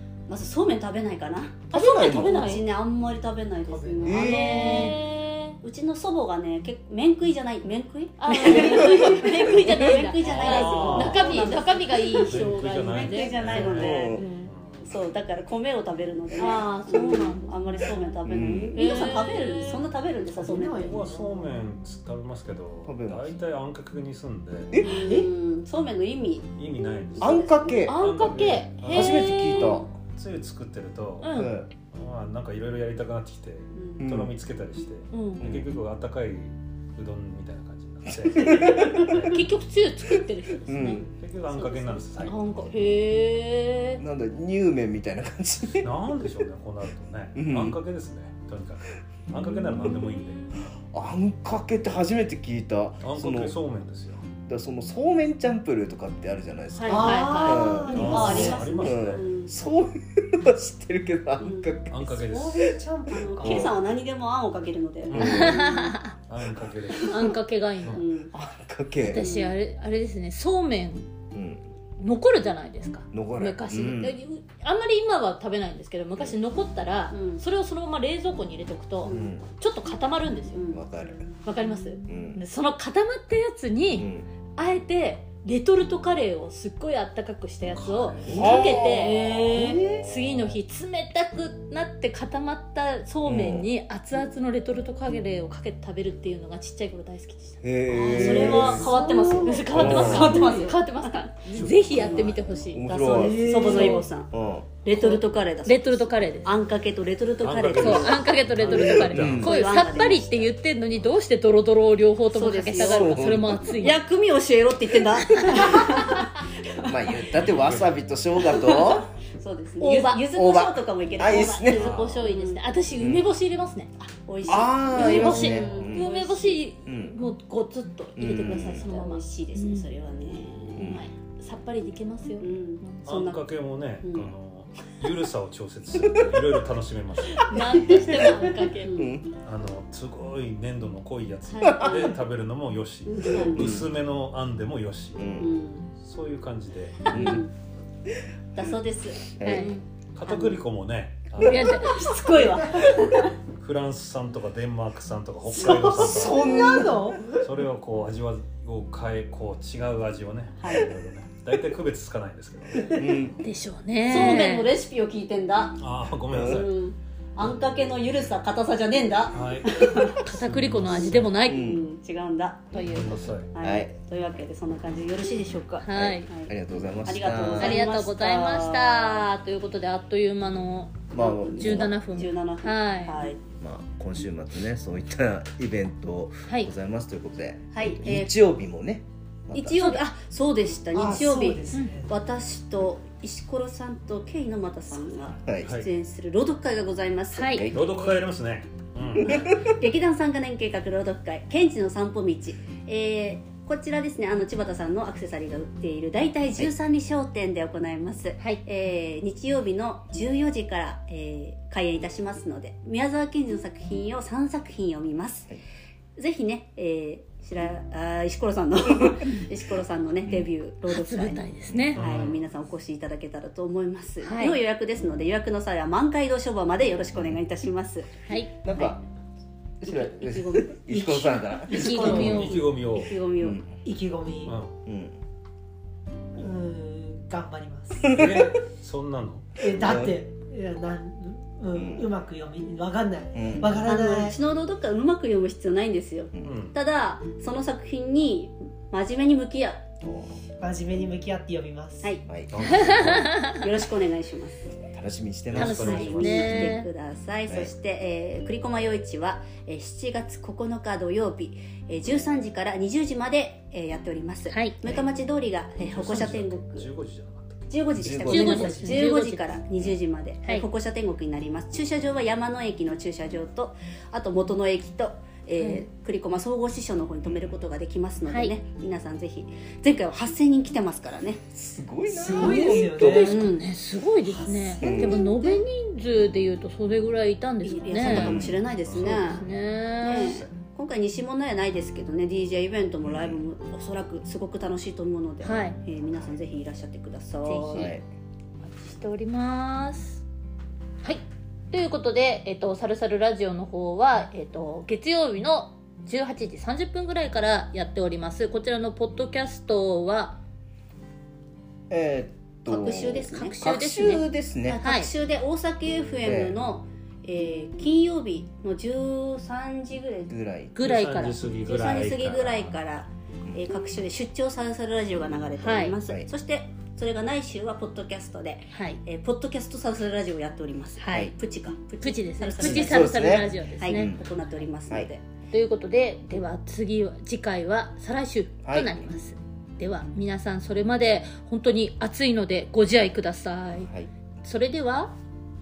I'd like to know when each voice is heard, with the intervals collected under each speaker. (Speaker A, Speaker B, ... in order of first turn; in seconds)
Speaker A: 0.3-5.0, 5.6-14.2, 14.8-21.0, 24.8-26.5, 27.1-27.9, 41.8-42.3, 57.4-59.5, 61.4-61.7, 63.1-65.9, 67.9-68.3, 69.2-69.6, 77.1-77.4, 79.0-79.3, 80.5-80.8, 88.5-89.8, 98.1-101.2, 101.9-102.4, 103.0-108.2, 108.7-110.4, 112.3-117.3, 118.4-122.6, 124.0-126.6, 128.7-131.0, 132.4-133.4, 134.0-134.3, 137.5-139.1, 143.1-143.7, 145.4-145.9, 147.1-147.5, 148.5-150.6, 151.4-153.3, 155.5-156.1, 160.6-160.9, 164.1-165.8, 166.4-170.3, 170.8-172.8, 173.5-179.2, 181.2-183.4, 187.7-188.3, 189.5-197.6, 199.2-215.5, 216.2-221.4, 222.0-228.1, 229.8-230.9, 231.7-233.7, 243.8-249.8, 253.4-254.6, 255.6-266.9, 267.7-281.4, 283.2-283.7, 287.6-289.4, 290.0-297.9, 312.7-313.6, 314.6-320.3, 321.6-333.2, 333.8-335.2
Speaker B: 1.7-2.6, 4.0-5.0, 13.5-14.3, 18.2-18.8, 22.8-23.3, 24.7-25.1, 27.2-28.0, 28.8-29.9, 31.3-31.7, 34.0-34.3, 35.4-35.7, 38.2-39.4, 40.6-41.1, 44.0-45.9, 47.3-47.8, 50.8-53.5, 54.5-62.2, 63.1-63.8, 65.1-65.6, 68.3-69.2, 71.3-71.6, 73.1-74.2, 79.0-79.4, 80.7-81.3, 82.1-82.4, 83.9-84.3, 88.2-90.1, 93.2-93.7, 97.6-100.4, 102.7-104.7, 108.9-109.5, 112.7-113.8, 116.8-119.1, 120.3-121.9, 123.0-123.3, 124.5-126.1, 126.8-127.1, 128.2-128.8, 130.8-131.0, 135.9-136.4, 137.9-139.3, 141.6-142.1, 143.2-143.9, 145.2-145.5, 147.1-147.4, 149.4-149.7, 155.8-157.2, 162.9-163.4, 166.3-166.7, 171.4-171.8, 173.5-173.9, 175.9-177.8, 181.1-182.2, 183.6-189.9, 195.4-195.7, 197.5-197.8, 199.2-199.7, 228.6-229.0, 229.8-232.5, 233.4-233.7, 234.8-235.1, 238.0-238.5, 239.7-240.2, 241.7-242.1, 243.3-243.7, 246.3-246.6, 250.0-250.4, 252.2-253.3, 254.9-256.8, 267.9-269.0, 281.5-283.4, 284.8-285.2, 288.0-288.6, 293.0-293.4, 297.7-298.0, 311.9-314.8, 316.2-316.6, 320.3-320.8, 332.6-334.2, 338.6-339.1
Speaker C: 1.7-2.7, 4.0-5.6, 8.2-14.5, 16.3-18.2, 18.7-19.8, 27.9-29.8, 31.2-31.5, 35.1-35.4, 38.7-41.1, 42.2-44.0, 56.7-57.9, 65.2-66.1, 67.0-68.0, 69.0-71.1, 72.0-80.7, 81.4-104.0, 104.9-106.5, 107.8-114.0, 115.3-116.2, 119.8-120.3, 121.2-123.9, 124.9-129.9, 130.8-133.1, 137.5-139.0, 141.5-142.1, 149.4-149.8, 151.4-152.1, 163.4-164.7, 170.2-171.8, 172.7-173.3, 175.8-176.3, 177.6-183.3, 186.5-186.7, 189.7-190.0, 197.3-197.7, 220.8-222.0, 224.2-224.6, 228.2-228.9, 231.7-232.6, 252.6-253.6, 255.6-256.9, 264.5-264.8, 268.2-269.4, 275.6-275.9, 278.3-278.5, 282.2-288.4, 289.0-290.4, 295.4-295.8, 297.4-297.9, 298.6-300.2, 301.0-310.4, 313.3-314.3, 314.8-315.1, 320.7-321.4, 325.6-326.0, 328.7-329.0, 331.0-331.3, 332.0-334.2, 335.5-343.9, 344.4-345.1
Speaker D: 3.7-4.2, 20.2-21.5, 56.9-58.6, 62.2-63.7, 103.2-104.0, 156.2-157.4, 190.9-192.1, 230.9-232.4, 233.8-234.6, 236.4-238.1, 239.6-244.4, 250.6-252.2, 282.1-283.3, 284.2-285.6
Speaker E: 10.2-11.5, 12.3-14.9, 20.6-24.7, 26.5-27.4, 27.9-29.3, 30.1-39.4, 41.1-42.4, 45.8-50.6, 53.0-54.2, 57.9-59.2, 61.9-62.6, 65.1-65.6, 66.3-67.2, 87.8-88.5, 90.1-90.6, 99.7-100.4, 101.5-102.0, 107.4-110.4, 117.3-118.0, 121.7-122.3, 133.1-137.5, 139.4-145.4, 146.0-147.2, 150.1-152.0, 152.8-156.5, 157.4-163.4, 165.7-166.7, 169.3-171.3, 172.8-173.5, 197.7-199.4, 221.9-222.4, 231.8-233.2, 234.4-234.7, 238.1-239.5, 246.4-246.8, 252.5-253.1, 255.5-256.8, 265.8-267.7, 288.0-290.5, 320.8-322.8